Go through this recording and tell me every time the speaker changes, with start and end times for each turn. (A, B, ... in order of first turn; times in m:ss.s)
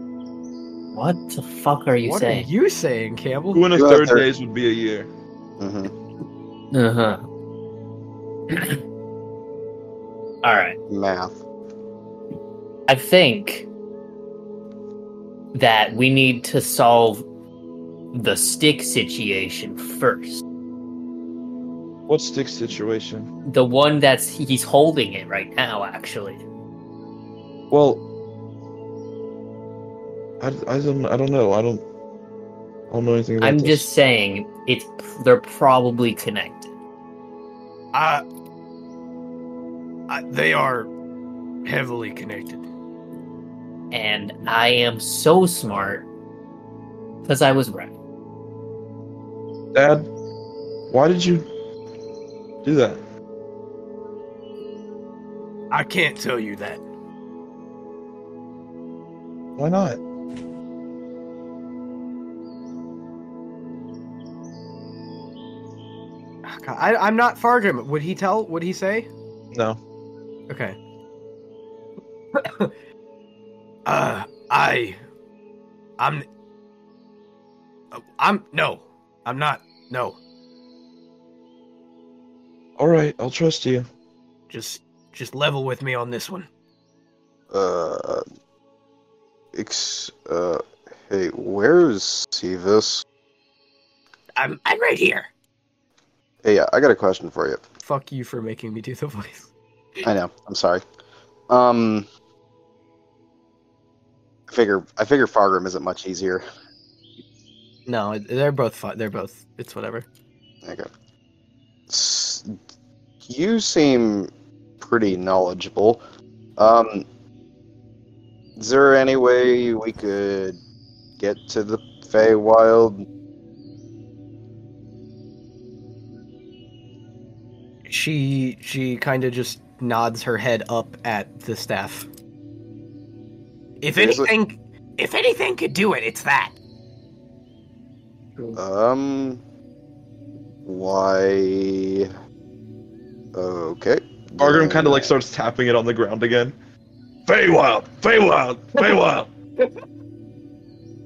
0:00.9-0:02.5 A
0:02.0-0:03.6 B
0:03.5-0:05.1 C
0:03.7-0:04.2 D
0:05.6-0:05.9 D
0:06.7-0:07.2 A
0:08.5-0:08.8 A
0:10.4-0:10.8 A
0:10.9-0:11.4 D
0:12.9-0:13.7 A
0:15.5-0:17.2 A
0:18.1-0:20.4 A
0:22.1-0:23.3 C
0:23.4-0:26.4 A
0:27.7-0:28.0 C
0:30.4-0:31.8 C
0:32.9-0:33.9 C
0:33.4-0:36.7 A
0:37.9-0:38.2 B
0:40.1-0:40.9 B
0:41.6-0:42.6 B
0:43.9-0:46.1 A
0:47.2-0:47.9 A
0:49.7-0:50.1 C
0:50.9-0:51.4 C
0:52.6-0:53.0 C
0:55.7-0:56.8 B
0:59.6-1:00.0 C
1:06.4-1:09.1 B
1:09.5-1:09.8 C
1:10.5-1:10.8 B
1:12.3-1:12.7 B
1:13.8-1:15.0 B
1:16.0-1:16.2 B
1:17.9-1:20.2 B
1:22.8-1:23.8 C
1:24.5-1:26.5 B
1:27.5-1:28.2 D
1:29.5-1:33.0 D
1:34.4-1:35.3 B
1:36.4-1:37.6 D
1:37.8-1:39.5 B
1:40.0-1:40.8 D
1:41.5-1:42.1 D
1:44.5-1:46.4 D
1:47.8-1:50.0 B
1:50.6-1:50.9 D
1:51.9-1:52.6 D
1:53.2-1:54.3 D
1:54.8-1:56.0 D
1:56.6-1:57.0 D
1:58.6-2:00.6 D
2:01.2-2:03.0 D
2:07.9-2:12.1 B
2:13.8-2:16.6 B
2:14.0-2:14.3 D
2:18.6-2:19.4 D
2:20.6-2:22.1 D
2:23.3-2:25.1 D
2:24.4-2:26.5 C
2:27.2-2:29.3 C